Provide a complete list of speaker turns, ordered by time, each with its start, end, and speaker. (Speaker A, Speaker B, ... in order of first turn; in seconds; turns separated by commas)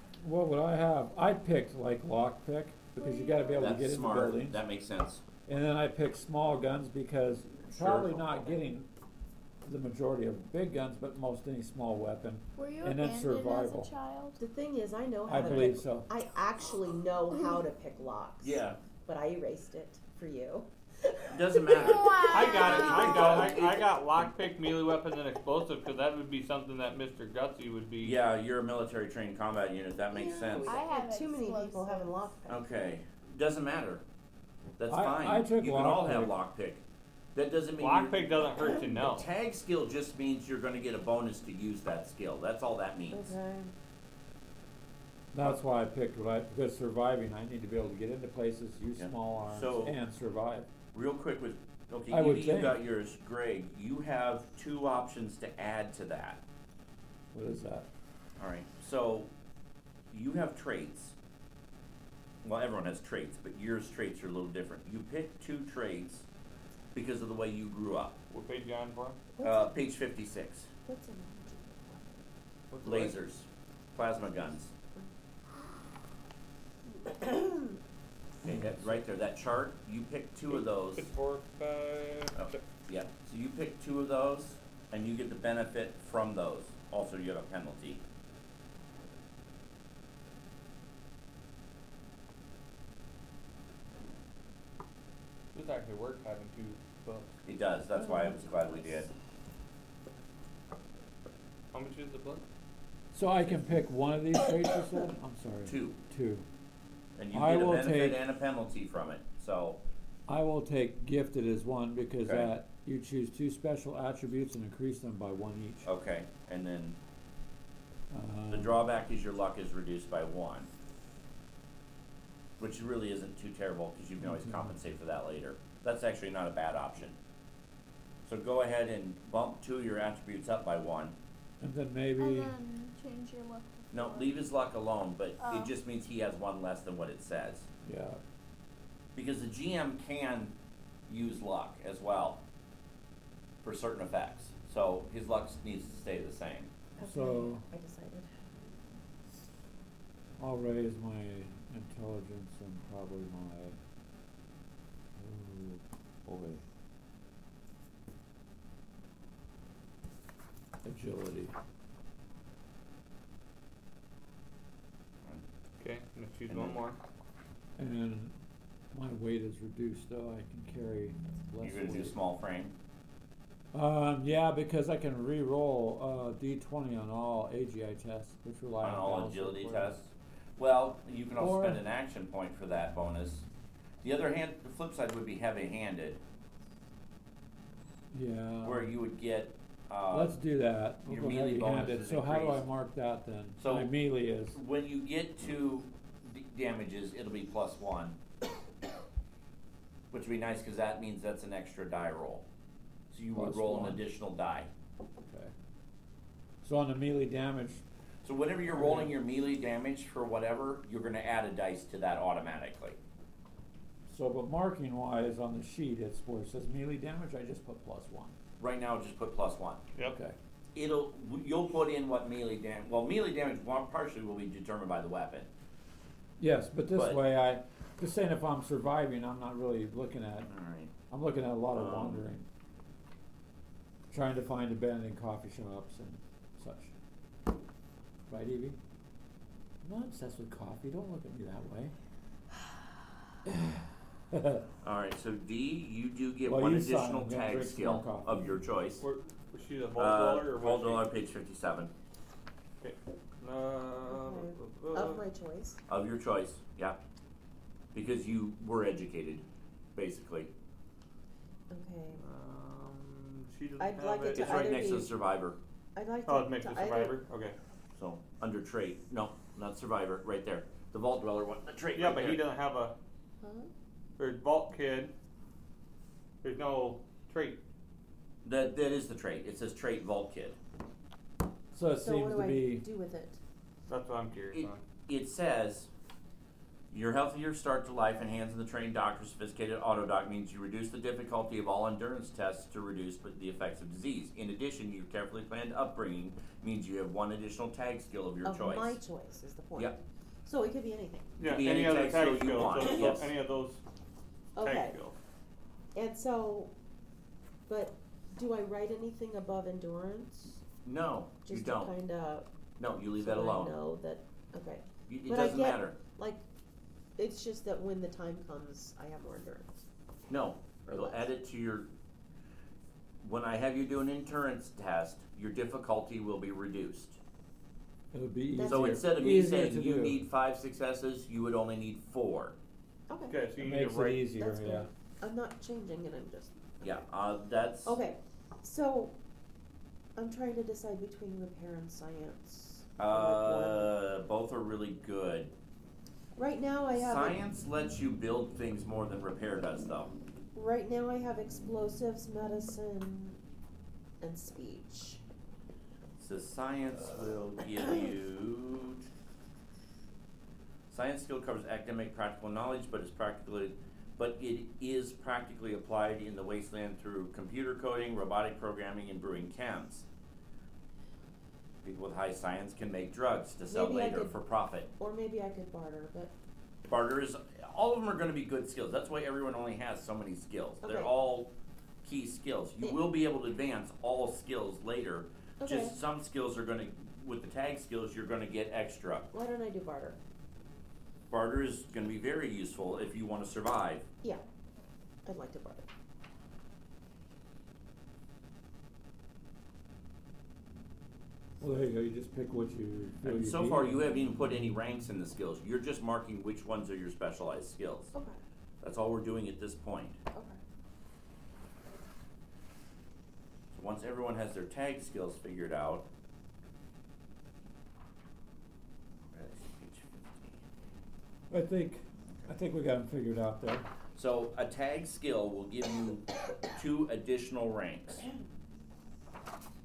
Speaker A: 0.2-4.6, Speaker B: 3.0-3.8, Speaker C: 3.6-5.2, Speaker A: 5.5-8.9, Speaker C: 7.7-8.6, Speaker A: 9.6-13.9, Speaker B: 12.6-14.4, Speaker D: 14.4-21.1, Speaker A: 15.3-16.1, Speaker C: 18.4-18.8, Speaker C: 21.3-24.2, Speaker B: 21.7-23.5, Speaker E: 22.3-28.2, Speaker C: 28.0-30.8, Speaker D: 30.1-32.6, Speaker B: 30.6-32.1, Speaker C: 32.5-34.0, Speaker C: 34.8-36.8, Speaker A: 34.9-36.4, Speaker C: 37.3-43.3, Speaker E: 37.8-39.3, Speaker D: 43.1-43.7, Speaker A: 45.3-50.7, Speaker C: 49.0-50.0, Speaker C: 50.9-56.4, Speaker A: 52.1-52.8, Speaker A: 57.3-57.9, Speaker C: 58.4-59.3, Speaker C: 60.1-61.1, Speaker C: 62.4-66.3, Speaker C: 66.9-68.2, Speaker E: 68.3-69.2, Speaker D: 69.3-69.8, Speaker C: 69.4-70.7, Speaker D: 70.9-72.2, Speaker E: 72.7-73.2, Speaker C: 72.8-74.7, Speaker D: 77.1-77.8, Speaker C: 78.4-81.1, Speaker E: 80.5-82.6, Speaker C: 82.3-88.0, Speaker E: 95.5-97.3, Speaker C: 97.5-99.1, Speaker D: 98.0-98.4, Speaker E: 101.7-102.4, Speaker A: 103.1-106.5, Speaker C: 105.7-106.0, Speaker C: 107.2-109.8, Speaker A: 107.3-108.2, Speaker A: 110.3-115.9, Speaker C: 112.2-112.5, Speaker C: 115.9-117.0, Speaker A: 118.1-118.9, Speaker C: 118.5-120.7, Speaker C: 122.6-127.2, Speaker A: 124.2-124.8, Speaker C: 128.2-131.2, Speaker A: 131.6-132.5, Speaker B: 132.2-134.4, Speaker C: 133.9-137.7, Speaker B: 135.4-135.7, Speaker A: 137.8-138.2, Speaker C: 139.2-140.5, Speaker C: 141.1-142.4, Speaker C: 143.6-146.7, Speaker D: 147.0-148.3, Speaker A: 147.0-147.7, Speaker A: 150.4-153.8, Speaker A: 155.2-156.6, Speaker A: 160.8-161.5, Speaker E: 165.8-167.0, Speaker C: 166.5-166.8, Speaker A: 167.8-168.3, Speaker A: 168.9-172.2, Speaker C: 171.6-172.8, Speaker A: 173.7-180.0, Speaker C: 178.8-183.4, Speaker A: 181.4-181.8, Speaker C: 184.0-186.2, Speaker A: 188.1-188.9, Speaker C: 188.6-190.4, Speaker A: 190.1-194.6, Speaker C: 191.1-192.7, Speaker C: 193.6-198.2, Speaker C: 200.1-202.4, Speaker C: 203.1-204.7, Speaker A: 203.3-204.0, Speaker A: 205.2-205.5, Speaker A: 206.6-207.8, Speaker C: 208.2-213.0, Speaker A: 208.7-209.1, Speaker A: 214.1-218.4, Speaker C: 218.6-219.8, Speaker A: 220.1-220.3, Speaker C: 220.8-225.5, Speaker A: 226.4-230.5, Speaker C: 226.9-227.2, Speaker C: 230.5-230.9, Speaker A: 231.1-232.4, Speaker C: 231.7-232.2, Speaker A: 234.1-236.9, Speaker A: 238.3-238.8, Speaker A: 239.8-241.9, Speaker A: 243.5-244.7, Speaker C: 244.8-249.0, Speaker A: 246.5-248.6, Speaker E: 249.0-251.1, Speaker C: 250.0-251.9, Speaker E: 252.8-255.2, Speaker D: 254.1-255.8, Speaker C: 255.9-257.0, Speaker C: 257.9-259.4, Speaker C: 259.9-260.5, Speaker D: 261.7-262.2, Speaker E: 262.2-265.0, Speaker D: 263.8-265.1, Speaker C: 264.3-265.6, Speaker D: 265.9-267.2, Speaker E: 266.3-267.6, Speaker C: 267.9-272.4, Speaker E: 272.0-272.9, Speaker D: 273.4-273.7, Speaker E: 274.2-275.1, Speaker E: 276.4-277.6, Speaker C: 278.4-280.6, Speaker A: 281.7-282.9, Speaker D: 282.0-283.4, Speaker E: 283.9-284.8, Speaker C: 284.5-285.9, Speaker C: 286.9-299.0, Speaker D: 298.4-301.3, Speaker E: 301.4-303.8, Speaker C: 301.4-303.3, Speaker D: 304.6-305.0, Speaker E: 304.6-305.1, Speaker D: 305.9-306.7, Speaker D: 307.7-310.6, Speaker C: 310.9-311.9, Speaker D: 311.5-312.5, Speaker C: 312.8-313.8, Speaker D: 313.2-316.4, Speaker C: 315.1-316.0, Speaker D: 317.2-319.8, Speaker C: 320.3-321.9, Speaker D: 320.9-321.3, Speaker C: 323.2-327.2, Speaker A: 328.1-330.2, Speaker D: 328.6-329.1, Speaker C: 328.6-332.6, Speaker D: 333.1-333.4, Speaker E: 333.3-334.3, Speaker A: 333.6-334.9, Speaker D: 334.4-336.9, Speaker C: 336.8-338.0, Speaker D: 337.9-339.2, Speaker D: 340.2-343.9, Speaker C: 343.0-345.5, Speaker D: 346.4-347.4, Speaker C: 346.9-350.1, Speaker D: 350.5-353.4, Speaker D: 354.2-355.2, Speaker C: 356.2-359.1, Speaker C: 360.9-370.1, Speaker C: 371.8-374.9, Speaker D: 373.7-374.4, Speaker D: 375.0-376.3, Speaker C: 376.9-381.5, Speaker D: 380.8-381.1, Speaker C: 382.0-389.3, Speaker D: 385.6-386.0, Speaker D: 389.3-390.2, Speaker C: 391.3-394.1, Speaker D: 395.2-395.9, Speaker A: 401.6-404.1, Speaker C: 403.2-408.1, Speaker C: 408.8-410.2, Speaker D: 410.3-410.6, Speaker C: 413.7-416.1, Speaker C: 419.3-420.6, Speaker A: 421.5-423.9, Speaker C: 424.1-428.2